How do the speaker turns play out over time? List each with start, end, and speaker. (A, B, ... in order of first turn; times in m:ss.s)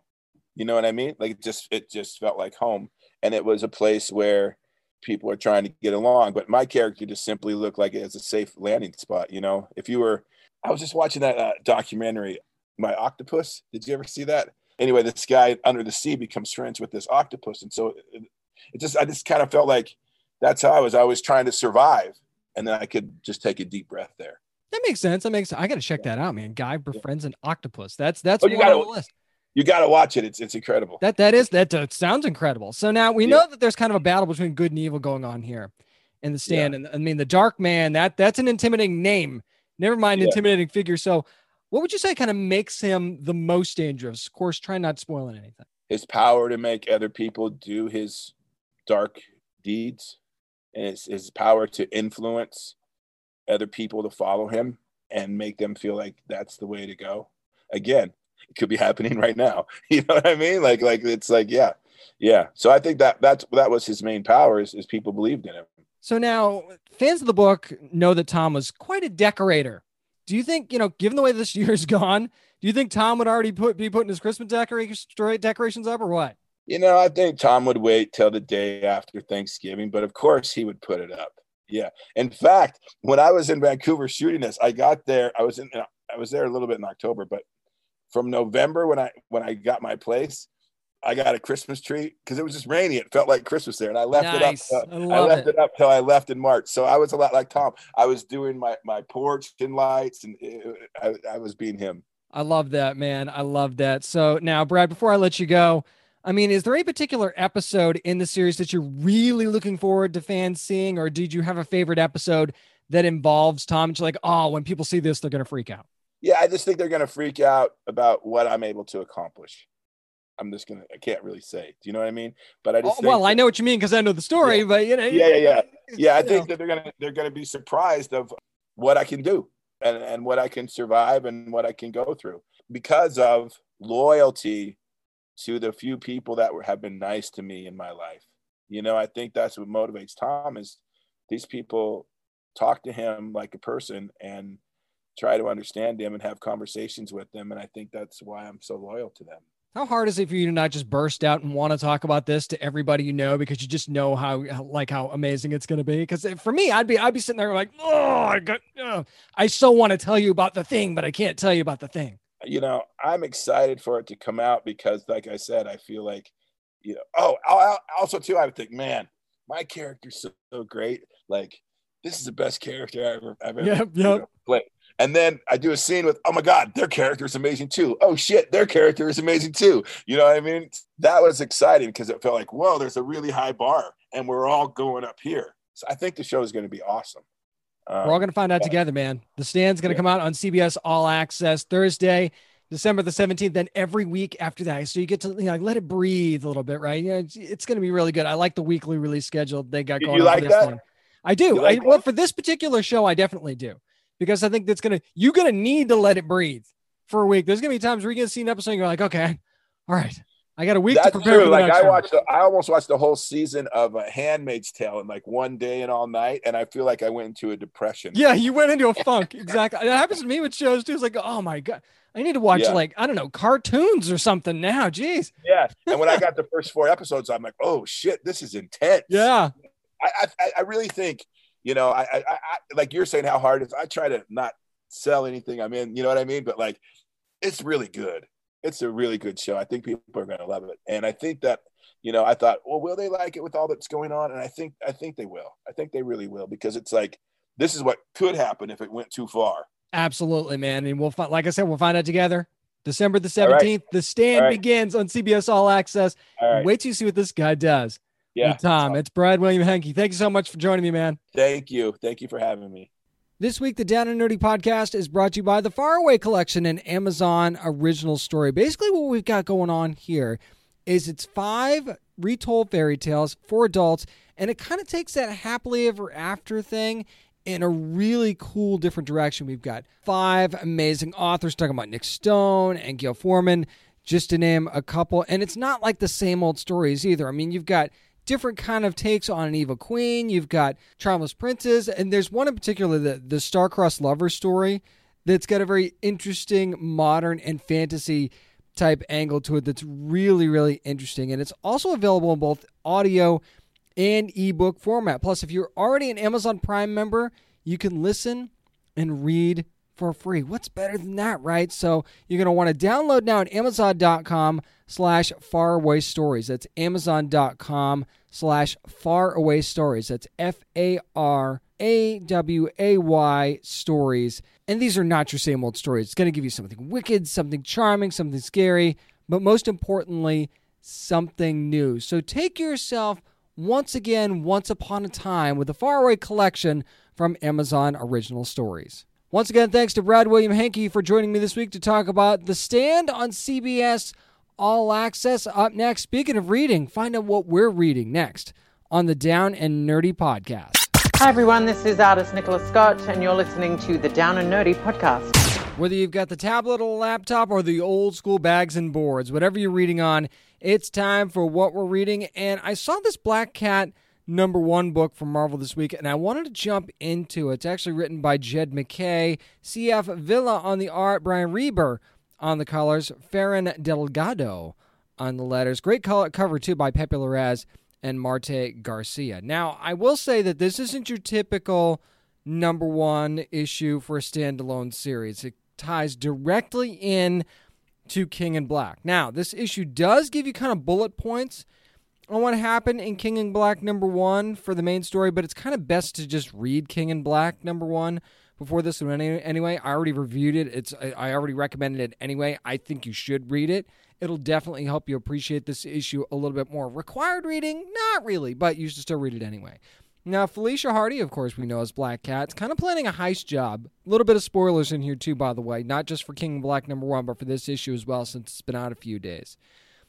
0:00.6-0:18.2 A
0:18.7-0:24.4 A
0:24.7-0:29.1 B
0:28.4-0:28.9 A
0:29.5-0:31.0 A
0:31.0-0:45.6 B
0:36.4-0:36.7 A
0:45.9-0:48.3 A
0:48.9-0:50.2 A
0:50.7-0:52.7 A
0:53.5-1:05.7 A
1:06.0-1:16.3 B
1:16.7-1:27.4 A
1:28.1-1:30.5 A
1:31.0-1:42.0 A
1:34.1-1:35.5 B
1:42.3-1:55.8 B
1:56.2-1:59.7 A
2:00.4-2:03.4 A
2:02.8-2:06.5 B
2:04.4-2:14.8 A
2:15.4-2:24.6 A
2:25.2-2:29.4 A
2:29.7-2:42.2 B
2:42.4-2:46.3 A
2:46.8-3:07.2 A
2:53.6-2:54.2 B
3:07.9-3:08.7 A
3:08.0-3:32.0 B
3:20.0-3:20.7 A
3:21.5-3:22.0 A
3:30.9-3:38.2 A
3:38.1-3:45.3 B
3:42.5-3:42.8 A
3:45.4-3:49.3 A
3:45.9-3:46.2 B
3:49.1-3:49.5 B
3:50.0-3:56.8 A
3:57.4-4:09.7 A
4:09.9-4:21.2 B
4:13.4-4:13.7 A
4:14.3-4:14.6 A
4:16.4-4:16.7 A
4:18.3-4:19.0 A
4:21.3-4:22.9 A
4:23.4-5:03.4 B
5:04.0-5:50.8 B
5:51.2-5:55.3 C
5:55.8-6:27.4 B
6:28.1-6:31.6 B
6:32.3-6:59.6 B